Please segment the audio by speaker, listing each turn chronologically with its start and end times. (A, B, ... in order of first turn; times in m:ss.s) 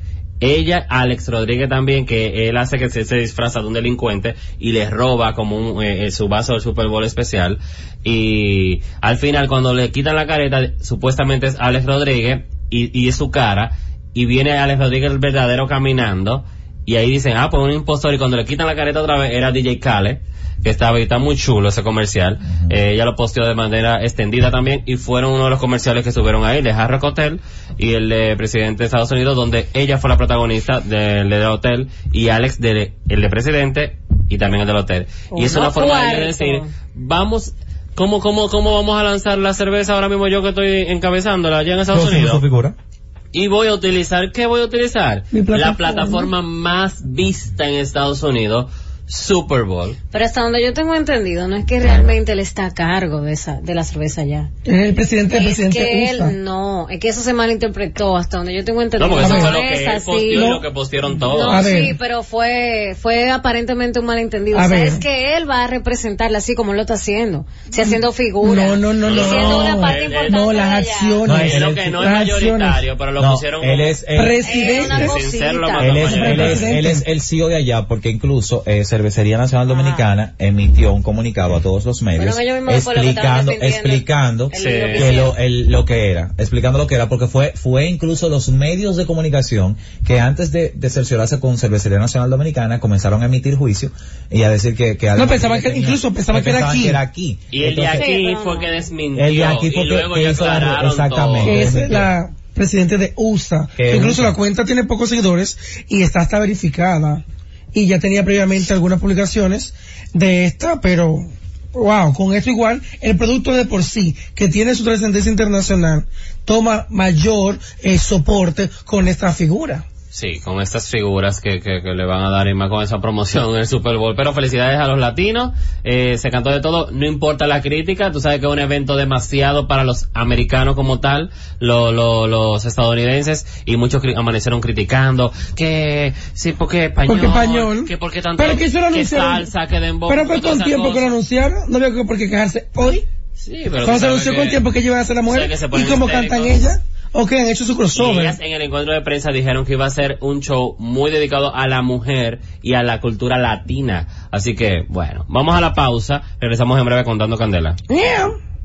0:00.4-0:42.4 A
0:22.4-0:22.8 B
0:35.3-0:36.7 C
0:41.9-0:42.8 B
0:43.3-0:50.0 A
0:45.3-0:46.3 D
0:50.1-0:54.5 C
0:54.7-0:56.4 D
0:55.3-1:00.6 C
0:59.0-1:01.7 A
0:59.2-0:59.6 D
1:00.3-1:00.6 D
1:01.2-1:11.2 C
1:01.4-1:02.0 D
1:04.5-1:05.0 D
1:07.7-1:12.8 D
1:09.0-1:10.6 A
1:11.2-1:12.0 B
1:11.3-1:16.8 A
1:13.2-1:14.6 B
1:14.2-1:15.2 D
1:14.4-1:16.1 C
1:15.8-1:38.1 B
1:16.0-1:17.0 D
1:19.7-1:20.1 C
1:22.2-1:25.4 C
1:24.5-1:25.2 A
1:35.2-1:37.0 D
1:37.5-1:41.7 A
1:37.9-1:38.7 C
1:39.2-1:42.1 B
1:41.4-1:59.8 D
1:43.8-1:44.4 B
2:00.1-2:21.1 A
2:17.1-2:19.5 D
2:20.1-2:23.0 D
2:23.4-2:24.6 A
2:23.8-2:28.4 D
2:25.3-2:26.6 A
2:27.9-2:37.8 A
2:37.9-2:38.4 D